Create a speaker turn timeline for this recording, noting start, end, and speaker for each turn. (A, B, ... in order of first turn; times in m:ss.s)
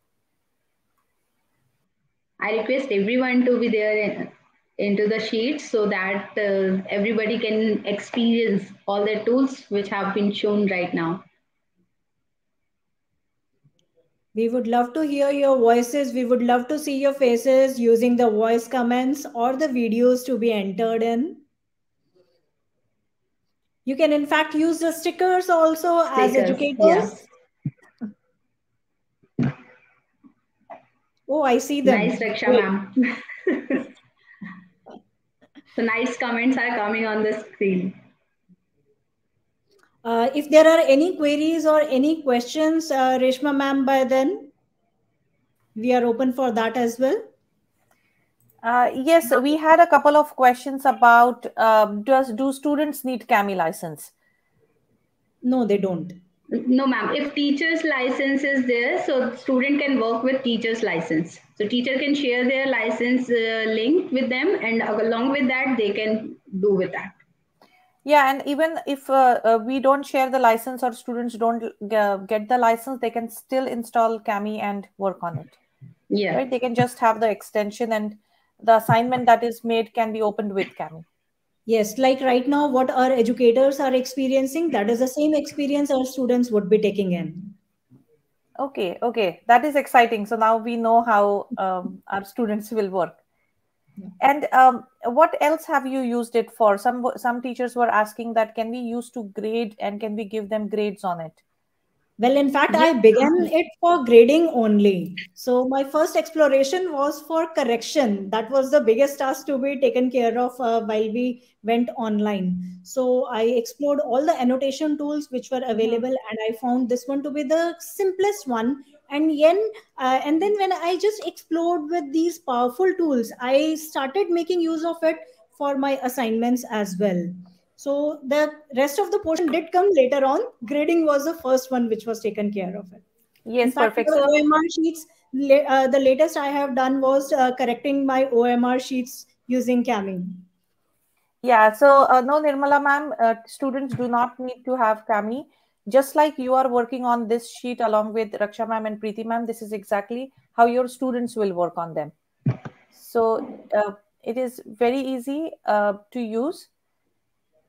0:02.4-0:11.2 A
0:14.3-0:21.4 B
0:23.8-0:27.2 B
0:26.2-0:27.2 A
0:31.3-0:32.7 B
0:31.8-0:33.9 A
0:35.8-0:38.0 A
0:40.0-0:44.5 B
0:45.8-0:47.3 B
0:48.6-0:54.1 C
0:55.4-0:56.2 B
0:56.5-1:07.1 A
1:08.0-1:15.6 C
1:16.1-1:16.4 A
1:16.3-1:21.0 C
1:21.7-1:27.5 B
1:28.6-1:33.2 C
1:34.2-1:41.4 C
1:42.2-2:13.0 B
1:42.7-1:43.2 C
2:13.4-2:14.2 C
2:13.6-2:20.4 B
2:21.4-2:32.1 C
2:32.9-2:36.7 C